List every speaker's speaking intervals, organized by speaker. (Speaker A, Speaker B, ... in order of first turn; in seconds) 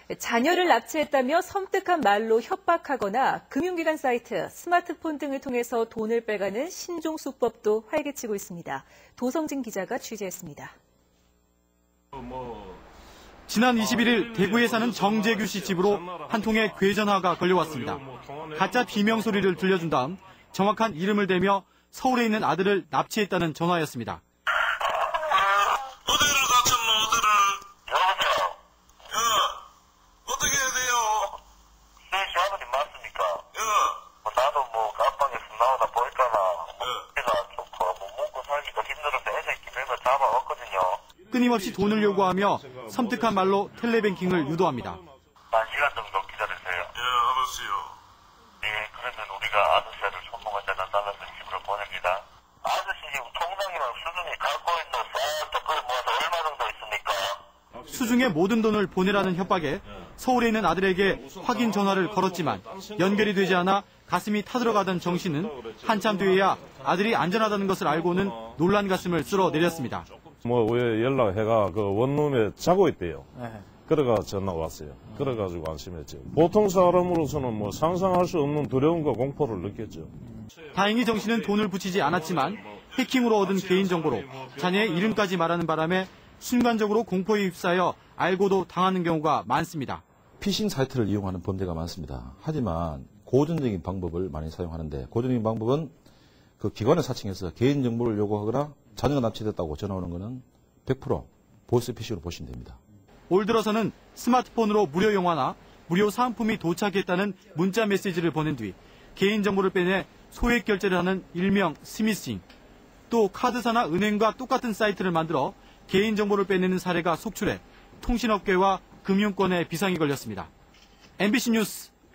Speaker A: 0.1-10.8
Speaker B: 12.1-12.8, 13.8-19.9, 41.3-45.0, 57.7-58.4, 61.0-63.7, 64.6-68.6, 69.2-80.1, 82.0-82.8, 84.1-85.2
Speaker C: 13.5-18.0, 18.6-24.2, 41.3-45.0, 57.9-70.1, 80.7-90.0, 103.3-112.4, 113.1-120.5, 121.2-121.9
Speaker D: 26.2-27.6, 30.3-31.2, 47.1-47.9
Speaker E: 27.9-28.6, 32.1-33.5, 34.1-41.0, 45.5-46.9, 48.6-57.4
Speaker F: 90.4-95.9, 96.6-102.8